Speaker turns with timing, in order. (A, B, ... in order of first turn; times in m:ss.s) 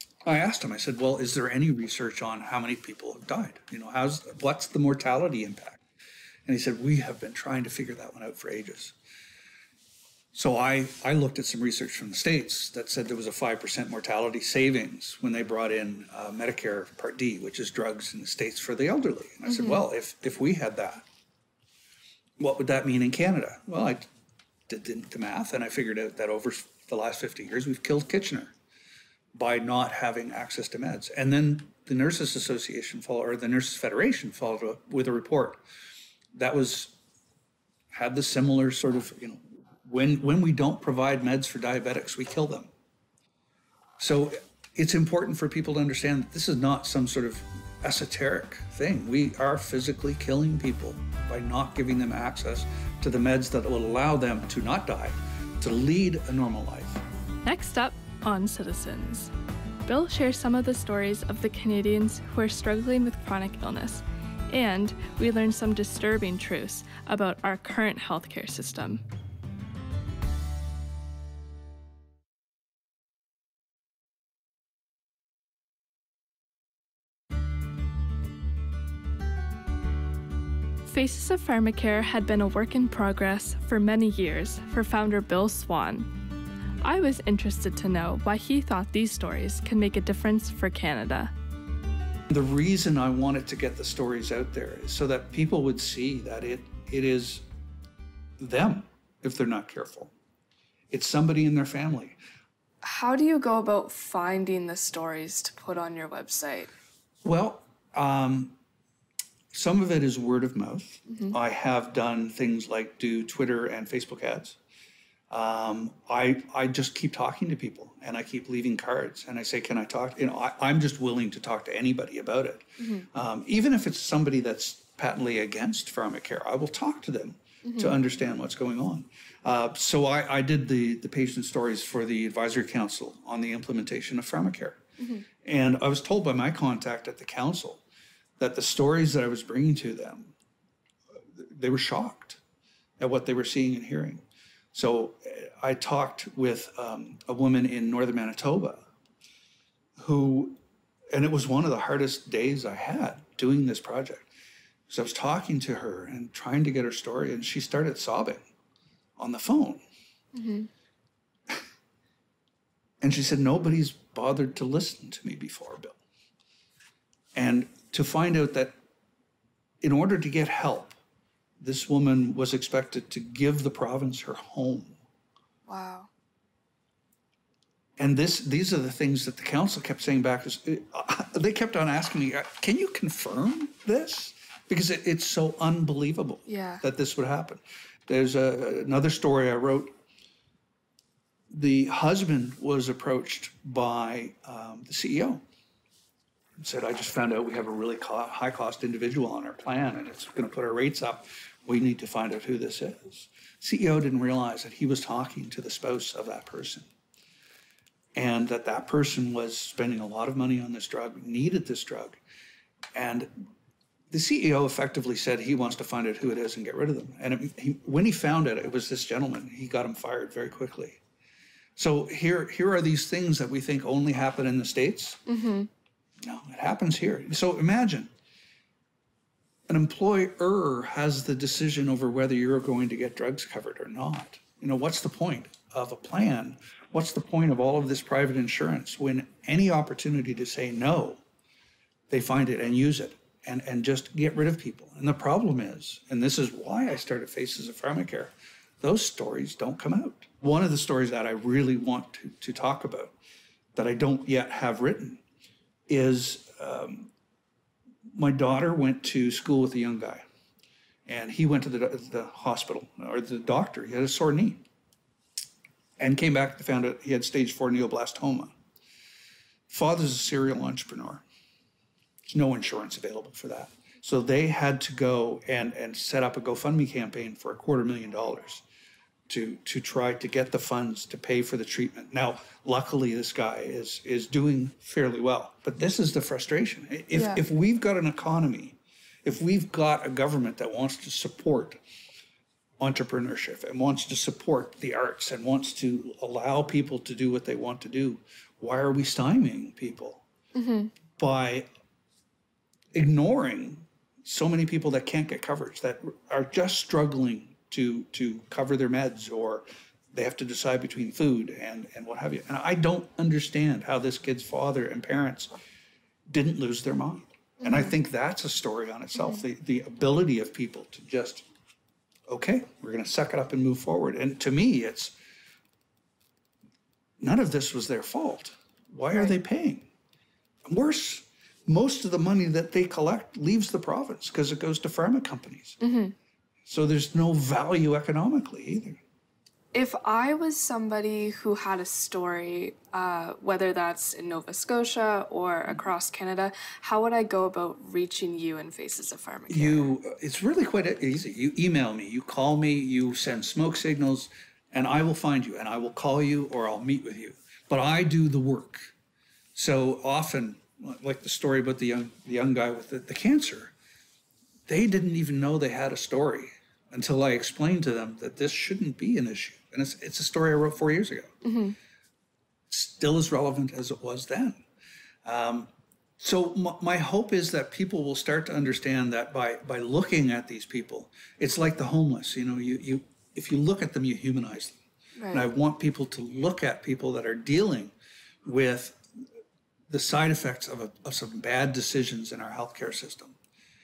0:00.2-0:05.8 A
0:06.4-0:08.9 A
0:10.3-0:21.0 A
0:19.5-0:19.8 B
0:22.4-0:24.1 A
0:24.7-0:28.5 A
0:29.3-0:35.6 A
0:36.3-0:37.0 A
0:37.9-0:42.7 A
0:44.0-0:57.0 A
0:57.4-0:59.3 C
0:59.8-1:09.0 C
1:20.8-1:26.1 C
1:26.8-1:31.3 C
1:32.3-1:37.4 A
1:38.4-1:40.1 A
1:40.9-1:42.2 A
1:42.8-1:46.7 B
1:47.2-1:48.6 A
1:49.5-1:54.6 A
1:51.1-1:51.3 B
1:55.3-2:14.8 A
2:02.8-2:03.1 B
2:07.6-2:07.9 B
2:15.0-2:15.2 B
2:15.4-2:17.8 A
2:18.4-2:20.3 A
2:21.4-2:22.4 A
2:23.0-2:28.8 A
2:30.0-2:30.6 A
2:31.1-2:34.3 A
2:34.9-2:38.5 A
2:39.2-2:39.8 A
2:40.3-2:40.7 B
2:43.0-2:46.0 A
2:47.3-2:48.7 A
2:49.8-2:51.0 A
2:51.6-2:55.0 A
2:55.7-2:56.1 B
2:58.0-3:10.0 A
3:06.5-3:06.8 B
3:11.5-3:15.4 A
3:16.6-3:26.9 A
3:28.1-3:32.2 A
3:32.9-3:33.4 A
3:34.1-3:41.0 A
3:41.8-3:45.2 A
3:45.3-3:45.7 B
3:46.2-3:48.1 A
3:49.7-4:01.2 A
4:02.1-4:13.1 A
4:13.7-4:15.2 A
4:15.9-4:17.1 A
4:18.1-4:20.2 A
4:21.0-4:24.6 A
4:26.0-4:28.5 A
4:29.7-4:31.2 A
4:32.3-4:38.6 A
4:39.3-4:51.8 A
4:47.1-4:47.4 B
4:52.8-5:00.2 A
5:00.5-5:00.9 B
5:01.2-5:01.7 A
5:02.9-5:15.5 A
5:16.3-5:21.4 A
5:17.6-5:17.9 B
5:22.3-5:25.1 A
5:27.2-5:29.9 A
5:30.6-5:35.8 A
5:35.8-5:36.1 B
5:36.6-5:39.0 A
5:39.7-5:49.9 B
5:49.5-5:58.9 A
5:59.5-6:03.7 A
6:04.7-6:11.4 A
6:11.4-6:11.8 B
6:12.7-6:14.6 A
6:15.2-6:24.8 A
6:25.2-6:25.4 B
6:25.3-6:27.9 A
6:28.4-6:29.0 A
6:29.9-6:33.4 A